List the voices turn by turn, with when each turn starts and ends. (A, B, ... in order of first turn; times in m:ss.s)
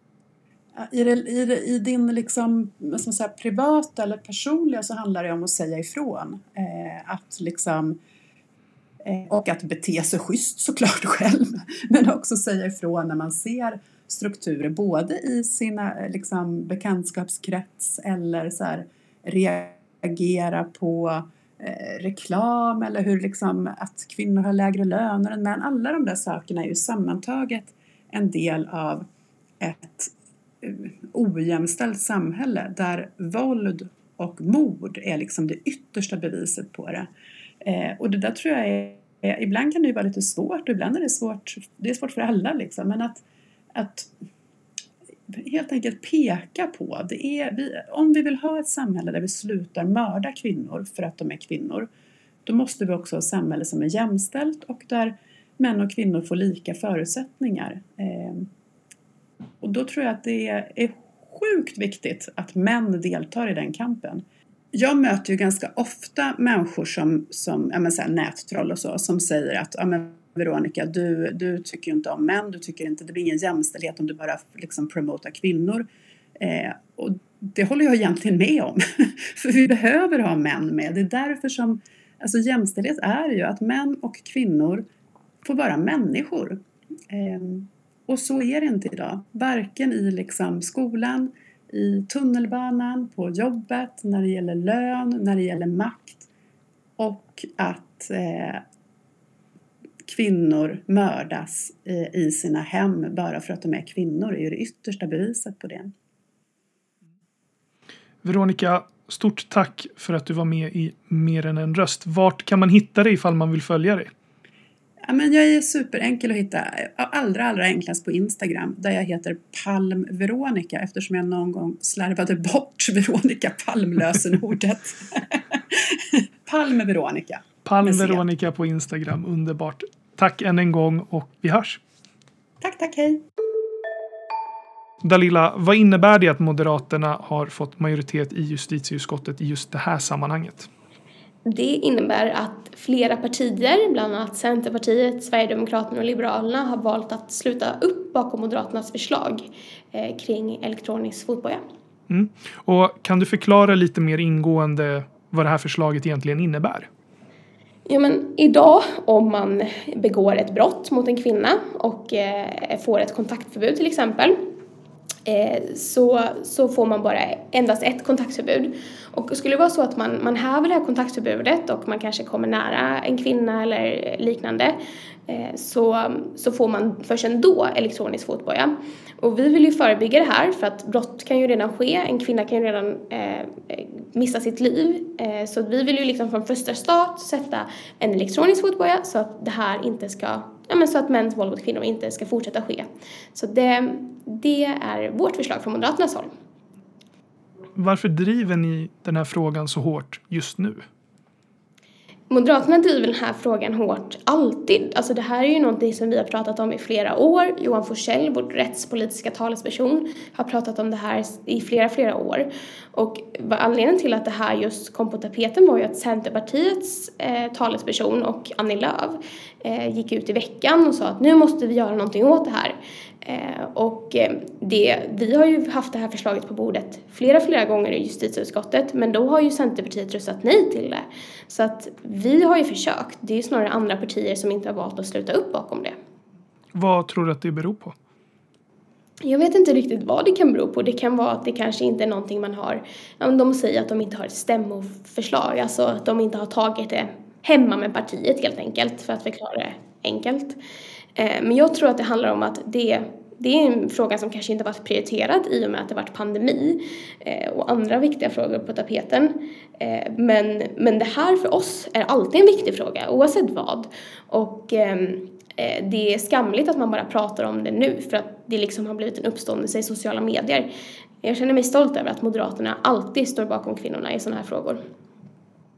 0:00.8-0:08.0 A
0:09.0-0:29.0 A
0:29.6-0:37.1 A
0:37.6-0:43.2 A
0:43.7-0:44.1 A
0:45.3-0:51.9 A
0:52.4-0:58.5 A
0:59.6-1:15.9 A
1:16.4-1:24.9 A
1:25.4-1:36.3 A
1:37.0-1:38.6 A
1:40.0-1:45.9 A
1:48.2-1:54.1 B
1:55.0-2:08.2 A
2:07.6-2:11.8 B
2:12.6-2:13.2 A
2:15.0-2:20.7 B
2:21.4-2:31.6 C
2:32.1-2:36.9 B
2:37.8-2:44.4 C
2:45.2-3:16.3 C
3:17.8-3:20.8 B
3:22.3-3:55.9 C
3:56.7-3:57.9 B
3:59.2-4:10.6 C
4:11.2-4:30.7 C
4:31.2-4:34.8 C